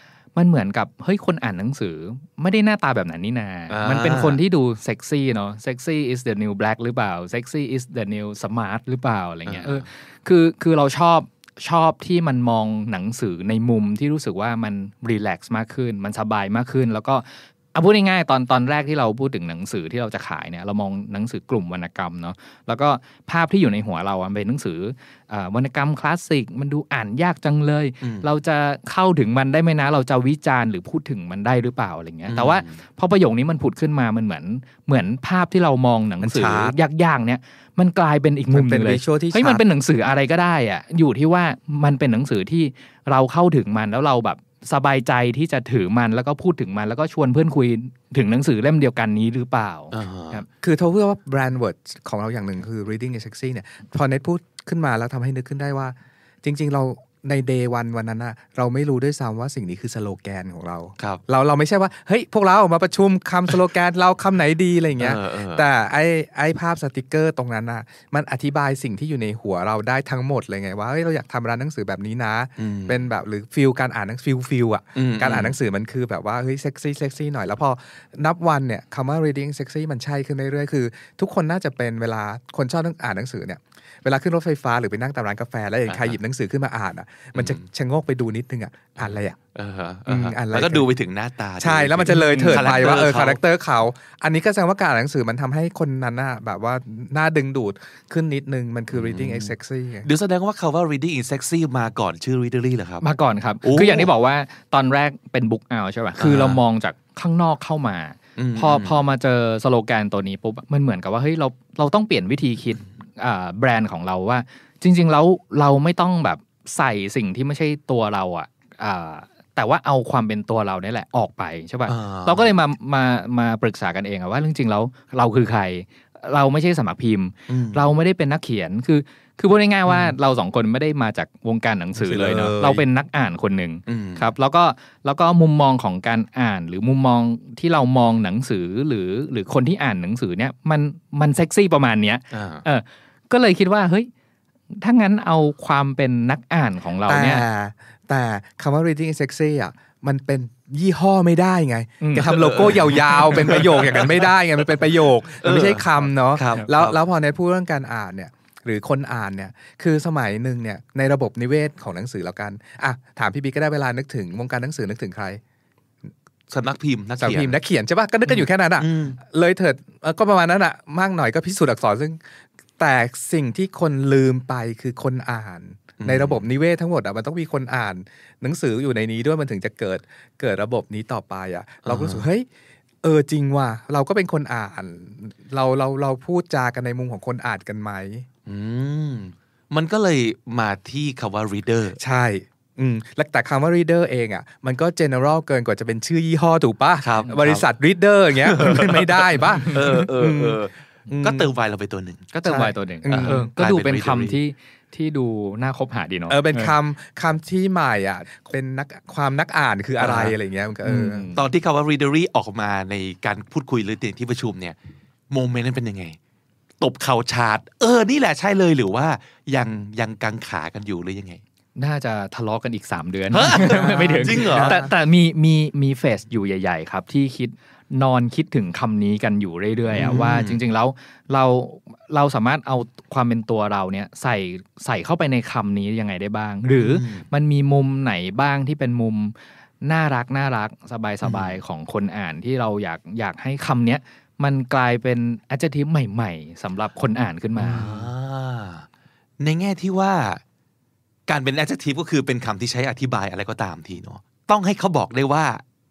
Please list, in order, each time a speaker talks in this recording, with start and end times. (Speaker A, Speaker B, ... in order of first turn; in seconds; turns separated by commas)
Speaker A: 0.3-50.5, Speaker B: 3.7-4.4, Speaker B: 9.4-9.8, Speaker B: 32.3-32.8, Speaker C: 36.2-36.8, Speaker C: 38.5-39.6, Speaker B: 49.9-50.4, Speaker C: 50.6-89.4, Speaker B: 65.0-65.6, Speaker B: 72.6-73.1, Speaker B: 74.9-75.5, Speaker B: 85.9-86.2, Speaker B: 87.3-87.7, Speaker B: 89.0-93.4, Speaker C: 90.0-90.9, Speaker C: 91.6-100.1, Speaker A: 92.1-92.8, Speaker B: 98.9-103.0, Speaker A: 103.0-144.1, Speaker B: 103.6-104.1, Speaker B: 106.2-106.6, Speaker B: 108.4-109.0, Speaker B: 121.9-122.5, Speaker B: 127.5-127.9, Speaker C: 132.0-132.8, Speaker B: 133.9-134.3, Speaker B: 142.3-142.6, Speaker A: 144.8-147.4, Speaker C: 147.1-165.4, Speaker A: 152.0-152.3, Speaker B: 152.2-154.3, Speaker B: 155.4-157.0, Speaker B: 166.5-167.6, Speaker C: 167.2-182.5, Speaker B: 168.2-169.2, Speaker B: 176.0-176.4, Speaker B: 181.8-182.2, Speaker C: 183.0-188.2, Speaker B: 188.4-192.0, Speaker C: 192.0-201.5, Speaker B: 197.0-197.7, Speaker B: 198.4-202.3, Speaker A: 202.3-206.7, Speaker C: 202.4-203.5, Speaker B: 203.1-204.4, Speaker C: 206.3-211.3, Speaker B: 210.0-210.3, Speaker A: 210.8-211.4, Speaker B: 211.3-214.8, Speaker B: 215.3-216.2, Speaker B: 216.8-221.4, Speaker A: 221.8-248.1, Speaker B: 223.3-224.8, Speaker C: 223.7-224.9, Speaker B: 229.9-230.6, Speaker B: 236.8-237.2, Speaker B: 241.2-241.6, Speaker B: 247.6-248.8, Speaker B: 249.4-250.4, Speaker B: 251.3-255.6